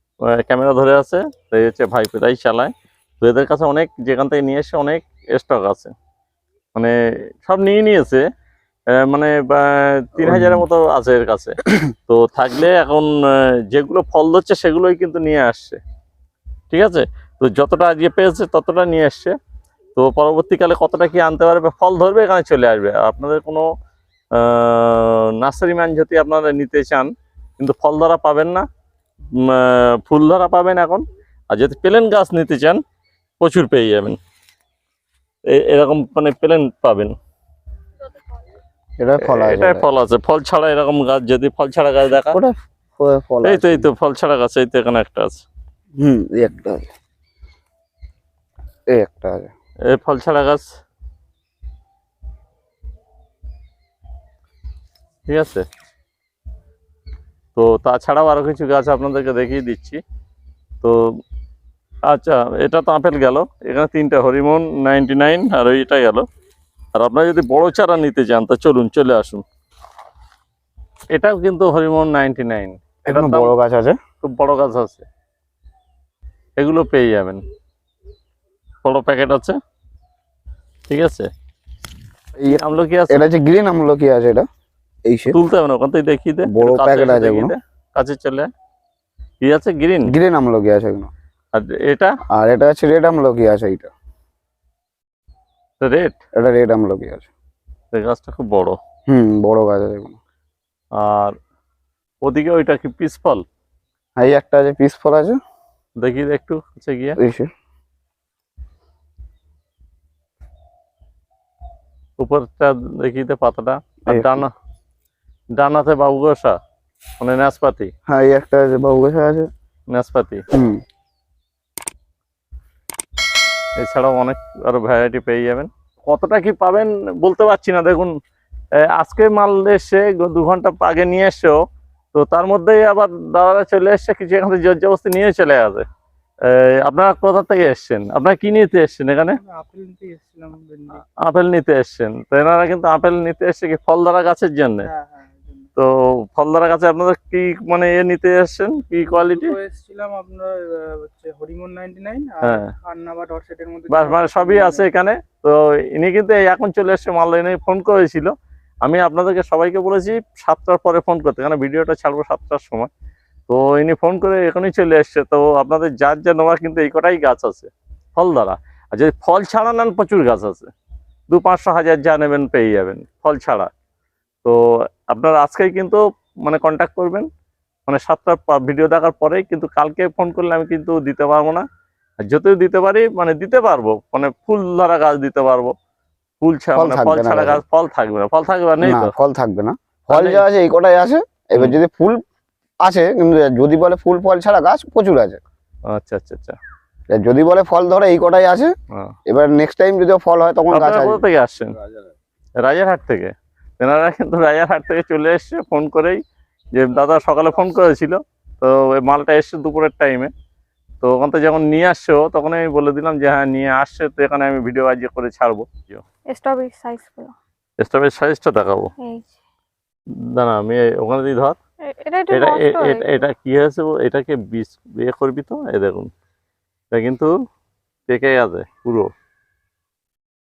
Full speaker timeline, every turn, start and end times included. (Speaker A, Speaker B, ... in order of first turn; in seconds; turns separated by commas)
Speaker A: 0.2-5.9, Speaker A: 6.8-8.2, Speaker A: 8.9-13.1, Speaker B: 10.2-10.7, Speaker A: 13.7-15.8, Speaker A: 16.7-19.3, Speaker A: 19.9-23.6, Speaker A: 24.3-28.6, Speaker A: 29.4-32.8, Speaker A: 33.4-34.2, Speaker A: 35.5-37.1, Speaker B: 39.0-39.9, Speaker A: 39.2-42.4, Speaker B: 42.1-43.9, Speaker A: 43.4-45.4, Speaker B: 46.0-46.9, Speaker B: 48.9-49.5, Speaker A: 49.9-50.6, Speaker A: 55.2-55.6, Speaker A: 57.5-60.0, Speaker A: 62.1-66.2, Speaker A: 67.0-69.4, Speaker A: 71.1-73.5, Speaker B: 73.1-74.0, Speaker A: 74.2-75.0, Speaker A: 76.6-77.4, Speaker A: 78.8-79.5, Speaker A: 80.9-81.3, Speaker B: 82.4-84.5, Speaker A: 82.4-83.2, Speaker B: 85.1-85.4, Speaker A: 85.3-88.5, Speaker B: 86.5-87.5, Speaker A: 89.4-90.1, Speaker B: 90.1-91.1, Speaker A: 91.5-92.1, Speaker B: 92.3-93.9, Speaker A: 95.8-96.2, Speaker B: 96.4-97.3, Speaker A: 97.9-98.8, Speaker B: 99.1-100.2, Speaker A: 101.0-101.3, Speaker A: 102.2-103.4, Speaker B: 104.2-105.4, Speaker A: 106.0-107.2, Speaker B: 107.2-107.5, Speaker A: 112.2-114.5, Speaker B: 114.0-114.4, Speaker A: 115.5-116.6, Speaker A: 117.2-117.9, Speaker B: 118.1-119.5, Speaker A: 119.9-120.4, Speaker B: 120.5-120.8, Speaker A: 123.8-128.1, Speaker A: 128.8-131.6, Speaker A: 132.1-135.8, Speaker A: 136.5-139.4, Speaker C: 139.4-141.0, Speaker A: 141.2-144.9, Speaker C: 144.9-145.7, Speaker A: 145.8-149.6, Speaker C: 149.2-154.9, Speaker A: 152.4-152.7, Speaker A: 153.9-158.3, Speaker A: 158.8-162.9, Speaker A: 163.5-170.7, Speaker A: 171.3-173.7, Speaker A: 174.4-177.3, Speaker A: 177.9-181.6, Speaker A: 182.2-185.7, Speaker A: 186.4-189.1, Speaker B: 186.7-187.6, Speaker B: 188.8-192.2, Speaker A: 190.1-190.4, Speaker B: 192.8-195.4, Speaker A: 195.9-196.6, Speaker B: 197.1-198.7, Speaker B: 199.3-201.2, Speaker A: 200.7-201.7, Speaker A: 202.6-206.2, Speaker A: 206.7-210.3, Speaker A: 211.0-216.0, Speaker D: 216.3-217.3, Speaker A: 217.8-218.9, Speaker D: 219.0-219.3, Speaker A: 220.3-221.6, Speaker D: 221.9-223.2, Speaker A: 222.3-226.1, Speaker A: 226.9-227.3, Speaker A: 228.1-229.1